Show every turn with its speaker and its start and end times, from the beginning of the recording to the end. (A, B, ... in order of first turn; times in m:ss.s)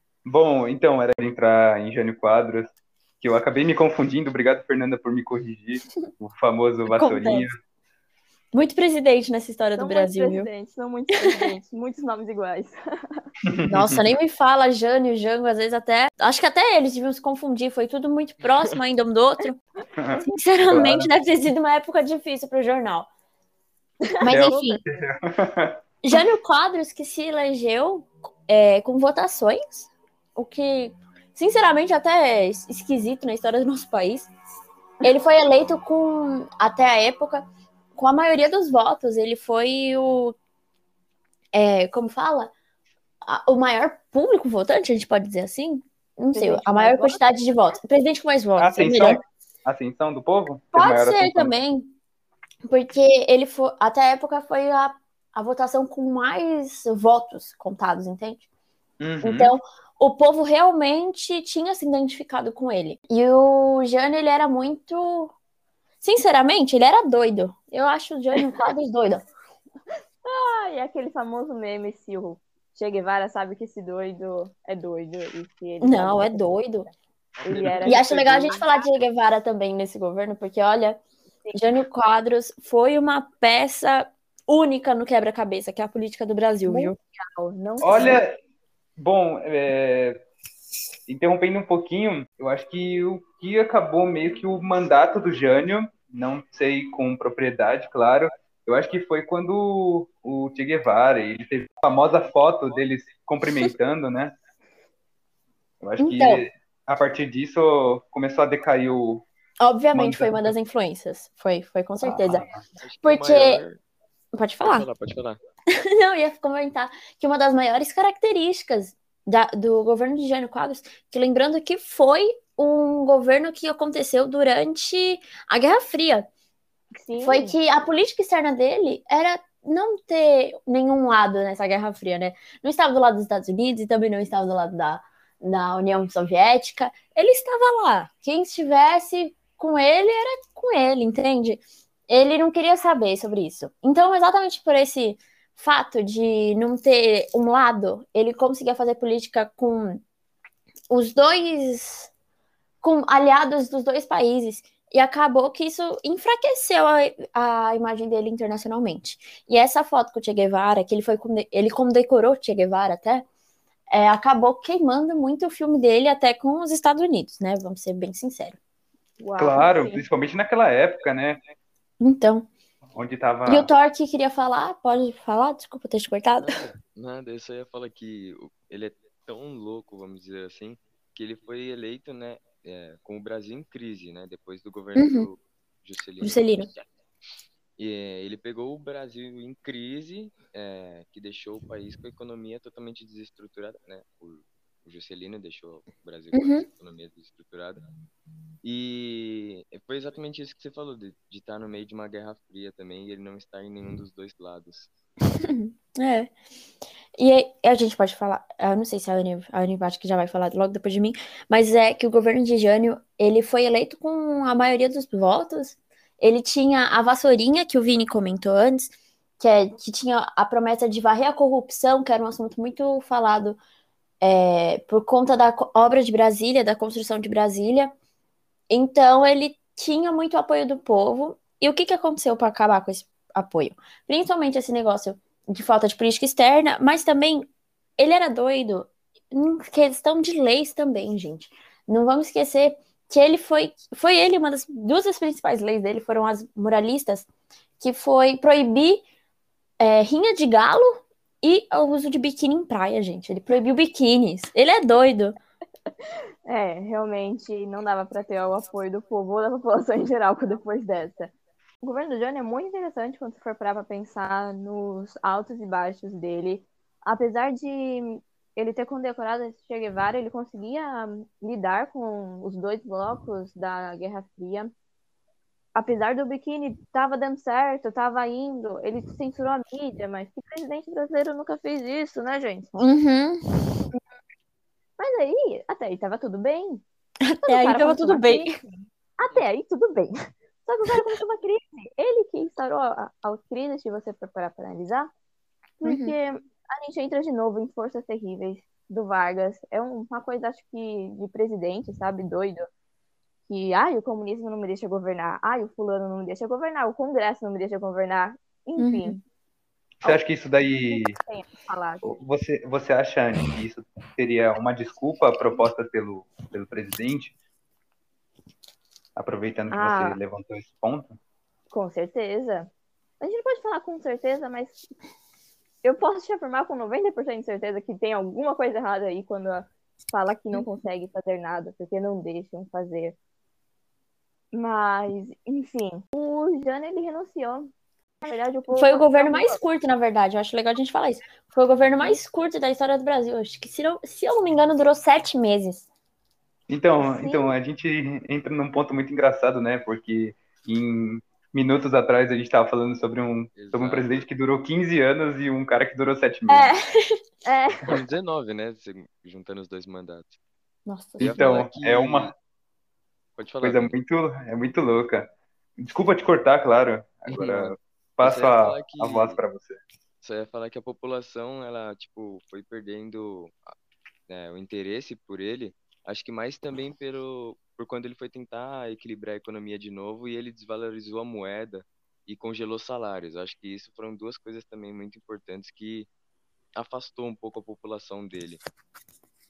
0:00.3-0:07.6 A
0:06.9-0:07.5 B
0:08.5-0:10.5 B
0:09.8-0:13.2 C
0:11.2-0:11.5 B
0:13.5-0:14.1 A
0:13.7-0:19.6 B
0:18.4-0:18.8 D
0:20.0-0:21.1 A
0:20.2-0:23.1 B
0:24.1-0:25.0 C
0:24.2-0:24.8 B
0:24.3-0:25.8 A
0:26.0-0:34.3 B
0:35.0-0:40.4 B
0:41.5-0:42.5 B
0:43.2-0:49.2 B
0:46.3-0:47.4 C
0:48.6-0:51.5 A
0:50.7-0:51.9 B
0:52.6-0:58.4 B
0:59.0-0:59.5 A
0:59.2-1:05.3 B
1:06.0-1:09.2 B
1:10.2-1:16.9 C
1:15.8-1:16.9 B
1:17.4-1:18.6 D
1:17.4-1:18.8 C
1:17.5-1:17.9 A
1:17.8-1:21.0 B
1:21.5-1:27.0 B
1:26.6-1:28.2 C
1:27.8-1:28.4 A
1:29.0-1:30.2 A
1:31.1-1:44.3 A
1:45.8-1:49.3 A
1:46.0-1:46.4 B
1:49.6-1:52.4 B
1:49.9-1:50.5 A
1:52.0-1:52.6 A
1:52.8-1:53.8 D
1:53.0-1:53.6 B
1:54.3-1:54.9 B
1:54.6-1:55.4 D
1:55.8-2:06.3 B
2:06.9-2:07.6 C
2:07.2-2:30.0 B
2:30.9-2:32.1 B
2:32.8-2:43.3 B
2:43.9-2:48.6 B
2:49.2-2:50.0 C
2:49.4-2:51.4 A
2:52.0-2:52.5 B
2:53.0-2:53.7 A
2:53.5-2:56.7 B
2:56.4-3:07.0 D
3:05.0-3:05.3 B
3:06.2-3:06.7 B
3:07.8-3:17.8 D
3:16.3-3:16.6 B
3:18.6-3:24.9 D
3:25.4-3:26.3 B
3:27.2-3:43.6 B
3:44.2-3:47.9 B
3:48.7-4:07.3 B
4:07.8-4:09.0 B
4:09.8-4:15.4 B
4:16.5-4:34.7 C
4:35.8-4:42.7 C
4:42.8-4:43.8 B
4:45.0-4:46.8 C
4:47.2-4:48.6 B
4:47.4-4:50.1 C
4:50.6-4:55.1 C
4:55.8-5:02.7 C
4:55.8-4:56.2 B
5:03.5-5:09.2 C
5:08.8-5:09.2 B
5:10.0-5:11.2 A
5:10.0-5:12.2 C
5:12.0-5:17.3 A
5:19.2-5:21.2 A
5:19.7-5:20.2 C
5:21.7-5:24.9 C
5:25.8-5:33.2 C
5:34.5-5:37.7 C
5:38.2-5:39.6 C
5:38.7-5:45.9 B
5:46.7-5:56.8 A
5:47.0-5:47.5 C
5:53.5-5:54.3 D
5:56.5-5:57.2 B
5:57.4-5:57.9 C
5:57.9-6:00.4 D
6:00.9-6:01.6 B
6:01.2-6:02.3 D
6:01.2-6:02.3 A
6:03.4-6:04.0 D
6:03.6-6:09.8 A
6:07.3-6:09.4 D
6:10.2-6:13.7 D
6:14.3-6:26.1 D
6:26.8-6:28.6 D